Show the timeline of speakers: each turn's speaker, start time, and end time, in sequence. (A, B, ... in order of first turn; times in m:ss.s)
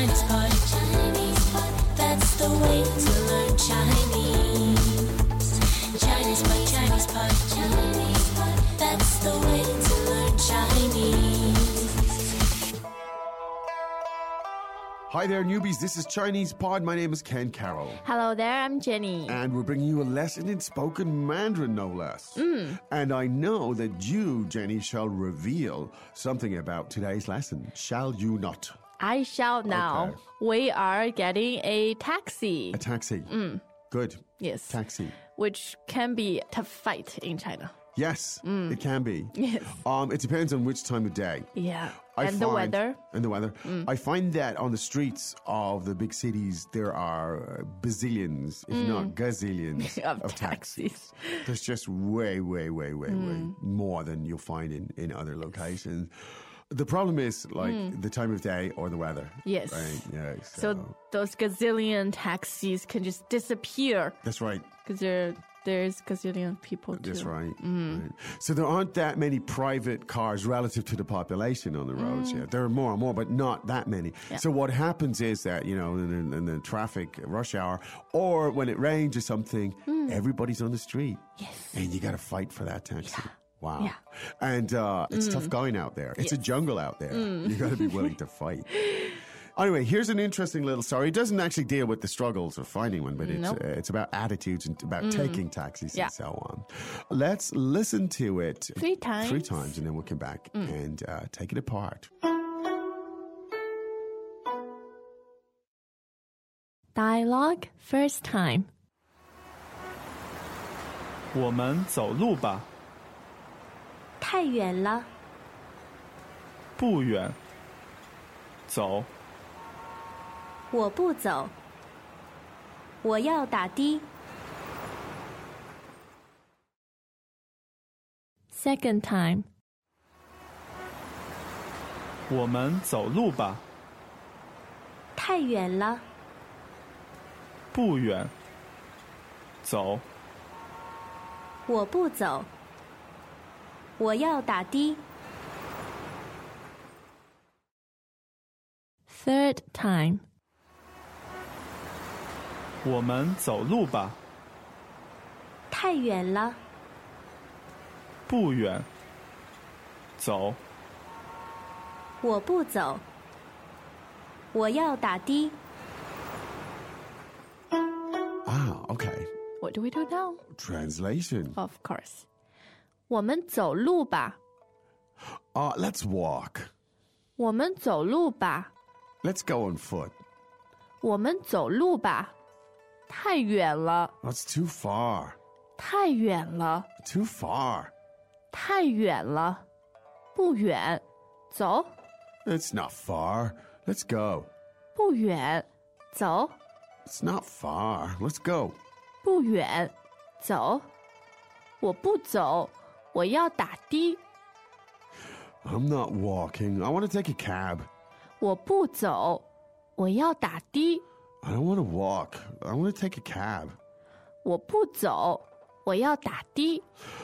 0:03.7-0:04.2 A
0:06.2-0:06.9 A
0:07.4-0:07.8 A
0:08.6-0:09.0 A
0:09.3-0:09.8 B
0:15.1-0:18.0 C
0:18.0-0:19.4 B
0:19.3-0:28.8 C
0:22.4-0:22.8 B
0:29.0-0:33.6 B
0:29.6-0:30.2 C
0:32.7-0:33.3 C
0:33.9-0:35.2 C
0:34.4-0:37.7 B
0:37.9-0:41.5 C
0:38.4-0:38.8 B
0:39.3-0:39.8 B
0:41.5-0:43.0 B
0:42.2-0:56.1 C
0:43.6-0:43.9 B
0:48.7-0:49.2 B
0:49.8-0:51.5 B
0:53.1-0:53.5 B
0:56.7-1:00.9 C
0:57.6-0:58.0 B
0:59.4-1:04.2 B
1:04.2-1:04.7 C
1:04.8-1:08.0 B
1:06.9-1:42.1 C
1:11.9-1:12.5 B
1:19.9-1:20.2 B
1:21.4-1:21.8 B
1:23.0-1:24.0 B
1:25.1-1:25.5 B
1:27.1-1:28.1 B
1:33.2-1:33.6 B
1:35.0-1:36.1 B
1:38.7-1:39.8 B
1:47.0-1:48.7 B
1:51.3-1:52.7 D
1:54.2-1:55.1 E
1:56.8-1:57.4 D
1:58.7-1:59.1 D
2:00.7-2:01.5 E
2:03.0-2:04.1 E
2:08.5-2:09.5 B
2:12.3-2:13.6 D
2:15.2-2:16.0 E
2:17.7-2:18.3 D
2:19.6-2:20.1 D
2:21.7-2:22.5 E
2:24.0-2:25.0 E
2:29.1-2:30.2 B
2:32.8-2:34.2 D
2:35.7-2:36.6 E
2:38.3-2:38.9 D
2:40.2-2:40.6 D
2:42.2-2:43.0 E
2:44.5-2:45.6 E
2:48.4-2:49.3 C
2:49.6-2:50.4 B
2:50.6-2:51.6 C
2:51.5-2:52.2 B
2:53.1-2:54.4 B
2:55.5-2:56.7 C
2:57.4-2:58.7 B
2:59.2-3:00.1 C
3:01.0-3:02.3 B
3:03.1-3:04.1 B
3:04.2-3:05.4 C
3:05.8-3:06.9 B
3:07.0-3:07.9 C
3:08.5-3:09.6 B
3:10.3-3:11.9 B
3:12.4-3:14.5 C
3:14.9-3:16.6 B
3:17.0-3:18.8 C
3:19.2-3:20.9 B
3:21.8-3:24.2 B
3:25.6-3:27.9 C
3:28.4-3:31.0 B
3:31.4-3:33.8 C
3:34.4-3:36.8 B